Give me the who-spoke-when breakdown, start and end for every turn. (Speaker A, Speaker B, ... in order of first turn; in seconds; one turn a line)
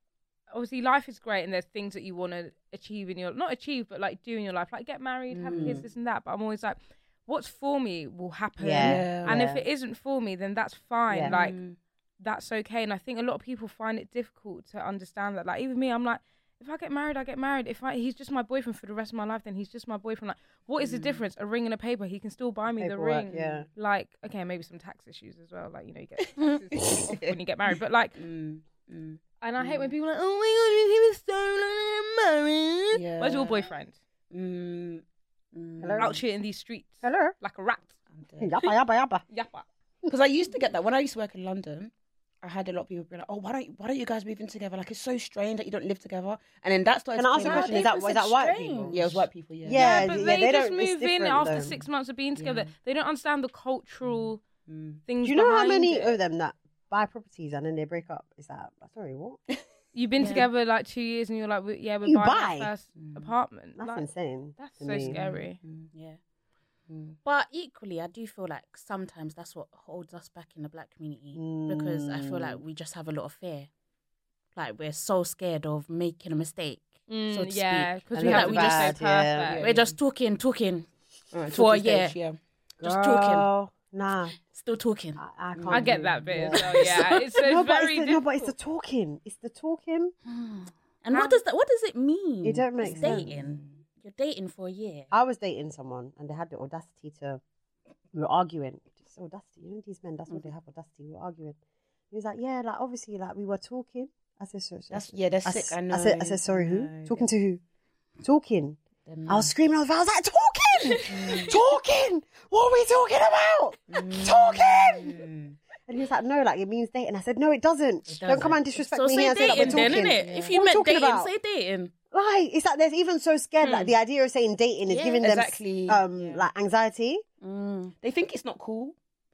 Speaker A: 0.5-11.6
Speaker B: 5.3-5.8
Speaker C: 5.5-5.8
Speaker C: 8.6-9.6
Speaker B: 8.8-9.4
Speaker C: 11.1-11.3
Speaker B: 11.2-11.8
Speaker A: 12.2-28.2
Speaker B: 20.8-21.2
Speaker C: 22.8-23.7
Speaker B: 23.3-23.6
Speaker B: 26.7-29.9
Speaker A: 29.4-34.0
Speaker B: 32.9-33.7
Speaker B: 34.3-35.0
Speaker B: 35.5-36.1
Speaker C: 35.8-36.2
Speaker A: 36.0-38.0
Speaker C: 37.0-37.3
Speaker B: 38.1-38.6
Speaker C: 38.4-39.2
Speaker A: 39.3-39.6
Speaker B: 40.1-47.9
Speaker C: 47.1-49.0
Speaker D: 47.4-49.3
Speaker B: 48.9-50.0
Speaker C: 49.6-51.8
Speaker A: 49.7-54.4
Speaker B: 52.4-52.7
Speaker B: 54.0-55.0
Speaker A: 55.1-56.2
Speaker C: 55.2-59.4
Speaker A: 59.9-65.6
Speaker D: 60.2-60.4
Speaker C: 62.0-62.7
Speaker B: 63.0-63.3
Speaker C: 63.8-65.1
Speaker B: 65.0-65.9
Speaker D: 65.9-66.2
Speaker B: 66.9-67.2
Speaker D: 67.2-73.7
Speaker C: 71.3-72.6
Speaker D: 74.5-79.0
Speaker A: 77.1-79.6
Speaker C: 78.1-79.5
Speaker B: 79.4-80.0
Speaker D: 79.6-80.9
Speaker B: 81.3-82.4
Speaker D: 81.5-82.2
Speaker C: 82.8-84.3
Speaker D: 82.8-83.5
Speaker D: 84.4-85.2
Speaker C: 85.2-90.1
Speaker B: 85.5-86.6
Speaker A: 85.7-88.5
Speaker D: 86.7-87.2
Speaker D: 90.2-95.1
Speaker A: 91.1-91.4
Speaker C: 92.4-93.3
Speaker B: 92.8-93.7
Speaker C: 95.1-97.4
Speaker C: 98.1-101.6
Speaker C: 102.1-107.6
Speaker B: 104.9-107.2
Speaker C: 108.2-115.2
Speaker D: 109.1-109.5
Speaker D: 110.9-111.4
Speaker B: 111.1-111.5
Speaker B: 113.9-115.5
Speaker C: 115.8-121.3
Speaker D: 118.1-121.9
Speaker B: 119.3-120.5
Speaker C: 122.1-127.2
Speaker A: 123.6-123.9
Speaker D: 124.8-125.3
Speaker B: 125.2-126.4
Speaker D: 127.4-127.9
Speaker B: 128.0-128.9